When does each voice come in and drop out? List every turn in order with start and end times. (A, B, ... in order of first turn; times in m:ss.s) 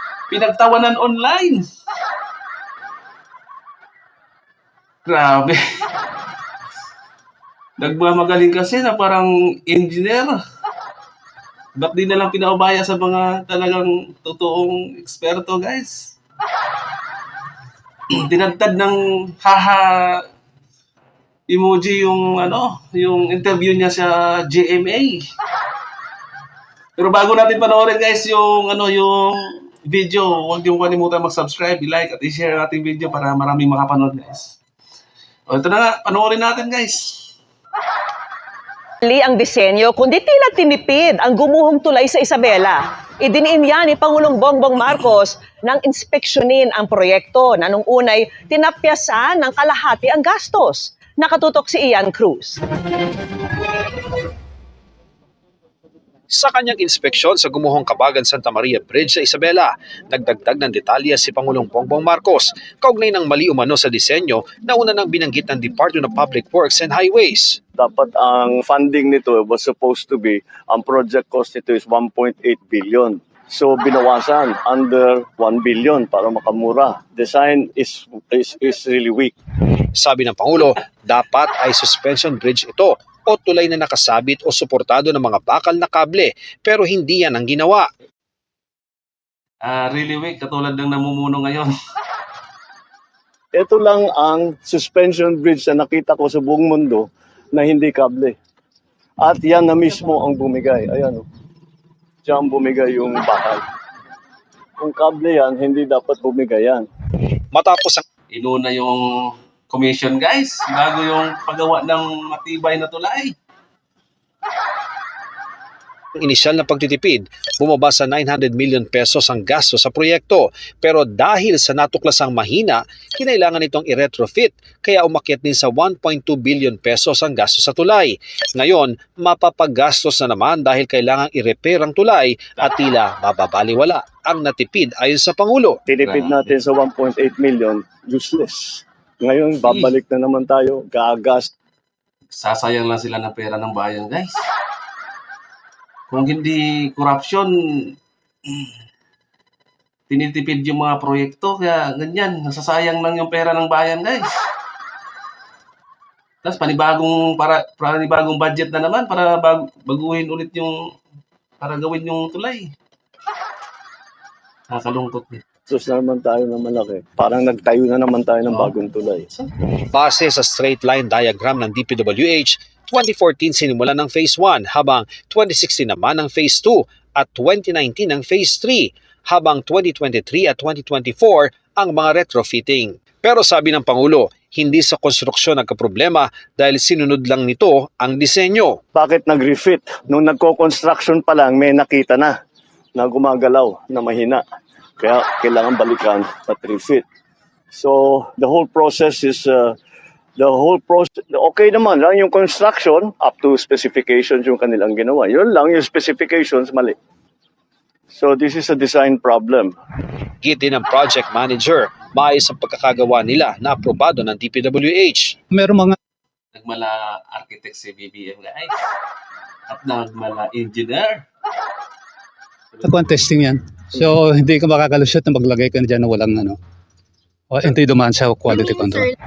0:00.3-0:01.7 A
0:05.1-0:05.6 A
0:07.8-0:10.3 A
0:11.8-0:16.1 A
0:18.1-0:20.2 A
0:21.5-0:25.2 A
0:27.0-0:34.6 A
0:35.5-0:37.3 A
0:39.0-0:52.6 B
0:56.3-1:07.6 C
1:07.8-1:19.4 D
1:20.0-1:27.9 C
1:29.6-1:31.7 A
1:33.5-1:38.4 D
1:39.2-1:41.2 D
1:42.2-1:43.6 D
1:44.8-1:46.9 D
1:47.5-1:48.0 C
1:48.3-1:53.3 A
1:56.2-2:15.8 C
2:15.9-2:21.5 D
2:16.0-2:16.6 A
2:19.6-2:19.9 A
2:22.3-2:24.4 A
2:26.1-2:28.0 A
2:28.5-2:28.7 A
2:30.1-2:34.4 A
2:36.4-2:40.8 A
2:41.6-2:42.7 A
2:44.7-2:45.4 A
2:45.7-2:49.3 D
2:48.5-2:49.5 A
2:49.9-3:08.8 C
3:08.9-3:12.3 D
3:13.0-3:14.4 D
3:15.0-3:17.0 D
3:17.7-3:19.7 D
3:20.4-3:27.0 D
3:28.1-3:29.7 D
3:30.4-3:35.4 C
3:35.5-3:36.0 E
3:36.6-3:38.9 A
3:39.7-3:41.2 A
3:42.7-3:43.2 A
3:42.8-3:46.6 E
3:47.5-3:49.1 E